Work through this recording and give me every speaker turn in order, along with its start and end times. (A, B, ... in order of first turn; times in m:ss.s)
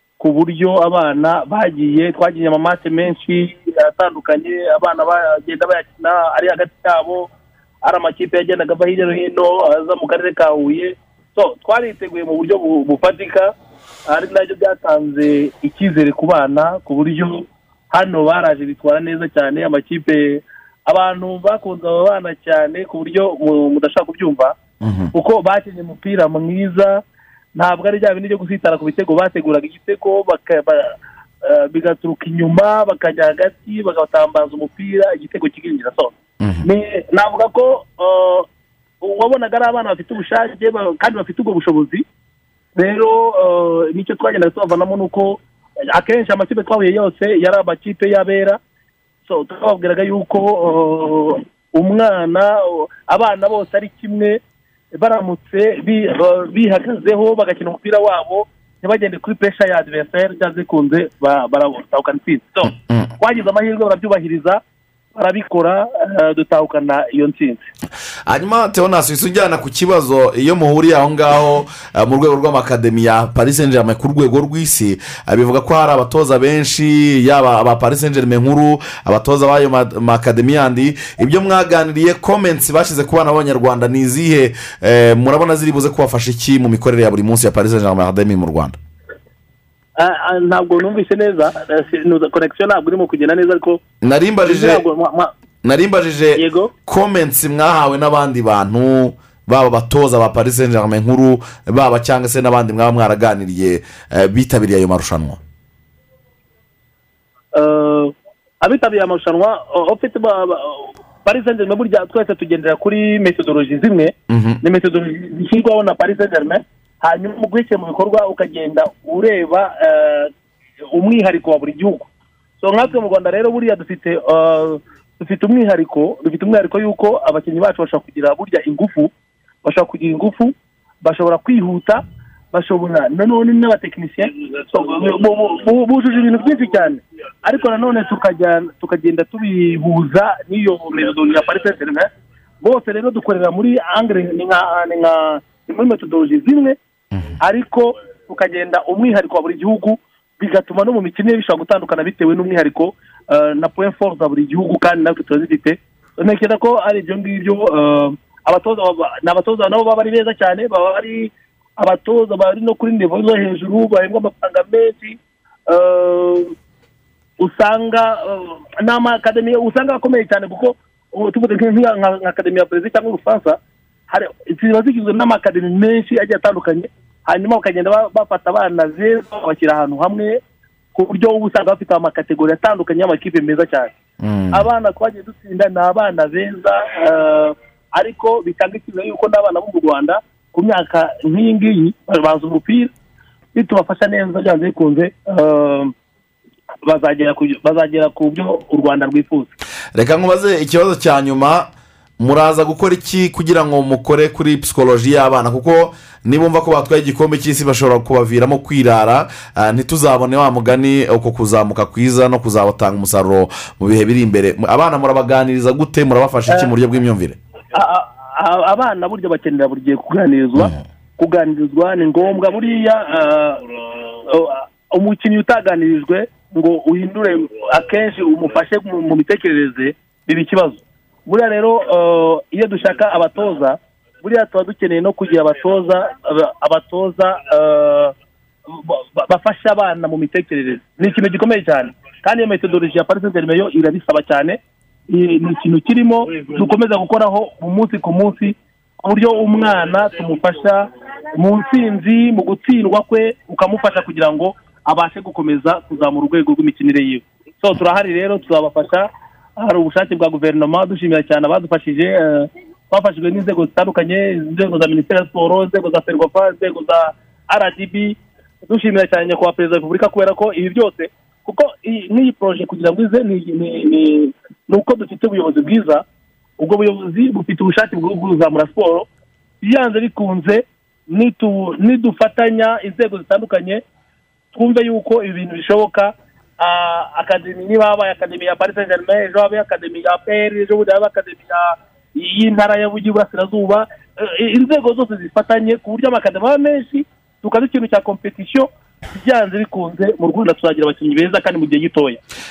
0:00.2-0:07.3 A
0:07.8-0:13.5 A
0:14.1-0:24.6 A
0:24.8-0:25.1 B
0:25.1-0:27.0 A
0:27.6-0:30.9 A
0:31.4-0:38.5 A
0:36.4-0:36.7 B
0:39.0-0:42.0 A
0:42.8-0:45.4 A
0:45.9-0:48.6 A
0:49.3-0:54.4 A
0:54.9-1:04.6 A
1:02.8-1:03.1 B
1:05.2-1:07.6 A
1:08.3-1:28.8 B
1:30.0-1:33.8 A
1:34.0-1:34.8 B
1:34.4-1:35.3 A
1:35.6-1:45.4 B
1:36.4-1:36.7 A
1:47.6-2:00.3 A
1:54.3-1:54.6 B
2:00.9-2:02.1 A
2:02.6-2:09.1 A
2:09.6-2:22.1 A
2:22.6-2:26.8 A
2:27.4-2:46.5 A
2:47.4-2:53.6 A
2:54.1-3:00.4 A
3:01.0-3:03.9 A
3:04.2-3:04.7 B
3:04.5-3:12.9 A
3:13.6-3:15.9 A
3:16.9-3:19.5 A
3:20.0-3:37.4 B
3:37.7-3:43.6 A
3:44.3-3:58.1 A
3:58.8-4:04.6 A
4:05.1-4:19.1 A
4:19.6-4:36.0 A
4:36.6-4:39.1 A
4:39.6-4:43.8 A
4:44.5-4:58.7 A
4:59.2-5:02.2 A